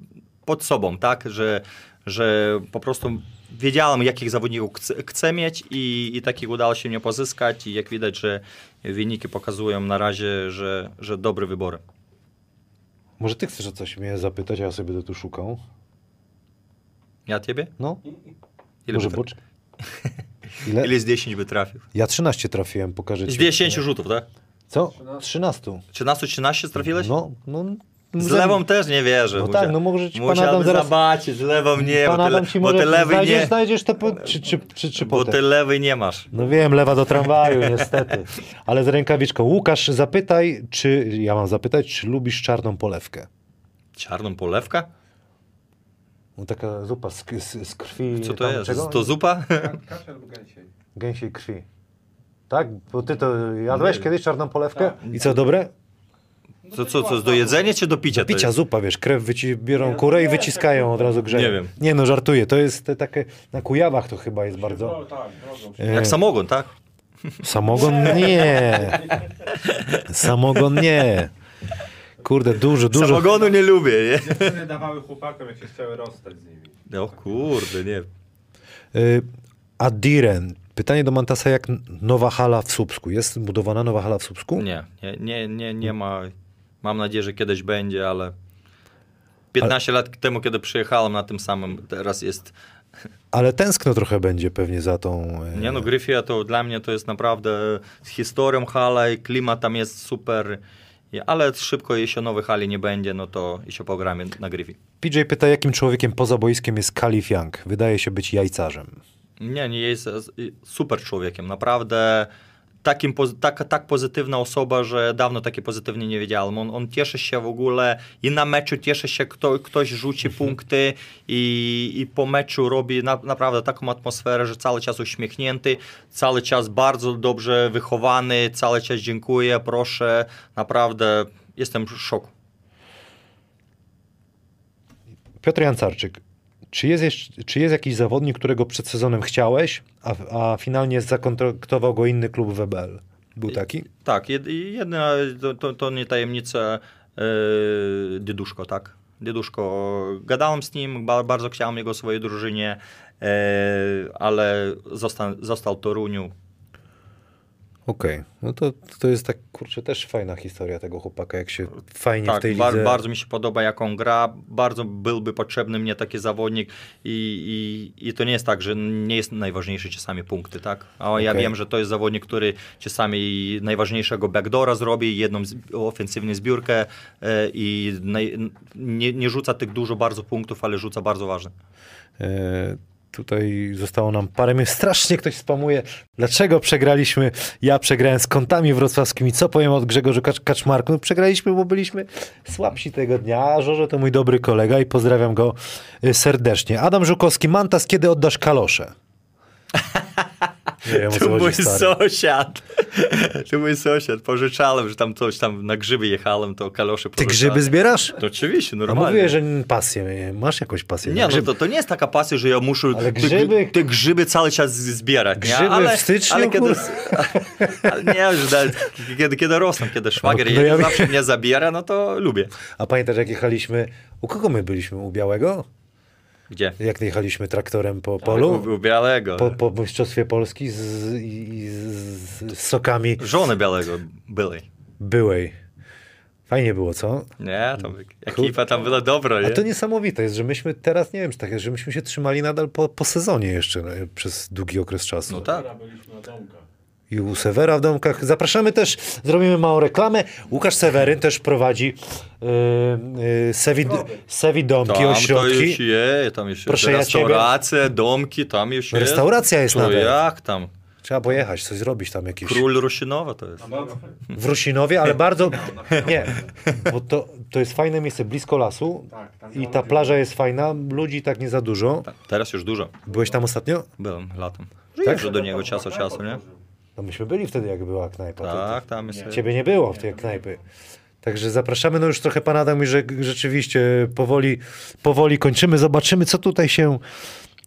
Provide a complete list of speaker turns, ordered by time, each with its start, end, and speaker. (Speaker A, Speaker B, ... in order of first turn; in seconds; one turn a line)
Speaker A: 0.5-11.8
Speaker B: 13.2-15.6
Speaker A: 17.3-17.7
Speaker A: 18.9-19.2
Speaker B: 18.9-19.4
Speaker B: 20.6-20.9
Speaker A: 20.6-21.8
Speaker B: 21.9-23.8
Speaker A: 23.3-24.2
Speaker B: 24.7-25.8
Speaker C: 24.9-25.2
Speaker A: 25.9-27.1
Speaker B: 26.9-28.6
Speaker A: 28.2-33.5
Speaker B: 29.3-30.9
Speaker B: 31.8-35.4
Speaker A: 35.0-36.3
Speaker B: 36.3-43.3
Speaker A: 37.4-38.1
Speaker A: 44.0-44.9
Speaker B: 46.4-49.1
Speaker A: 48.1-49.8
Speaker C: 49.5-50.7
Speaker B: 51.0-51.6
Speaker B: 52.5-55.7
Speaker A: 53.7-54.0
Speaker C: 54.7-55.0
Speaker A: 55.1-55.4
Speaker A: 56.7-58.5
Speaker C: 56.7-57.7
Speaker B: 58.1-65.0
Speaker C: 59.7-61.2
Speaker A: 61.3-61.7
Speaker C: 64.5-66.2
Speaker B: 65.8-66.2
Speaker A: 65.9-66.7
Speaker A: 67.3-68.1
Speaker B: 67.4-69.1
Speaker C: 67.7-69.2
Speaker A: 69.5-70.0
Speaker B: 70.0-71.3
Speaker B: 72.2-73.4
Speaker A: 72.9-74.6
Speaker C: 74.2-76.7
Speaker A: 76.9-78.1
Speaker B: 78.9-79.2
Speaker B: 79.8-84.6
Speaker A: 84.5-88.3
Speaker A: 89.5-92.5
Speaker B: 93.3-95.9
Speaker A: 95.5-100.6
Speaker A: 101.1-104.8
Speaker B: 105.0-109.0
Speaker A: 109.4-112.3
Speaker A: 112.8-132.3
Speaker B: 135.4-136.2
Speaker B: 136.7-143.8
Speaker A: 143.5-156.3
Speaker B: 157.9-163.0
Speaker A: 162.2-181.5
Speaker B: 171.2-171.5
Speaker B: 182.2-198.9
Speaker A: 199.7-209.3
Speaker B: 200.8-201.9
Speaker B: 207.2-208.2
Speaker B: 208.9-211.5
Speaker A: 211.0-222.5
Speaker B: 212.9-213.8
Speaker B: 215.4-218.2
Speaker B: 220.2-221.1
Speaker B: 222.8-225.7
Speaker A: 226.5-226.8
Speaker B: 226.8-228.7
Speaker A: 228.2-229.6
Speaker B: 229.3-233.2
Speaker A: 233.2-234.7
Speaker B: 235.0-235.5
Speaker B: 236.5-237.3
Speaker A: 237.4-239.6
Speaker B: 237.8-238.7
Speaker B: 239.4-245.5
Speaker A: 245.3-245.7
Speaker C: 245.3-246.6
Speaker B: 247.1-255.8
Speaker C: 253.8-254.2
Speaker A: 254.8-260.7
Speaker B: 256.7-257.5
Speaker B: 258.9-260.2
Speaker B: 261.0-262.6
Speaker A: 262.4-263.7
Speaker C: 263.6-264.2
Speaker B: 264.3-272.1
Speaker C: 265.5-266.5
Speaker C: 269.1-270.2
Speaker A: 272.0-273.0
Speaker B: 273.1-273.9
Speaker A: 274.0-276.4
Speaker B: 275.0-275.3
Speaker C: 275.0-276.6
Speaker B: 277.0-280.6
Speaker A: 278.4-279.4
Speaker C: 279.0-280.5
Speaker B: 281.2-287.0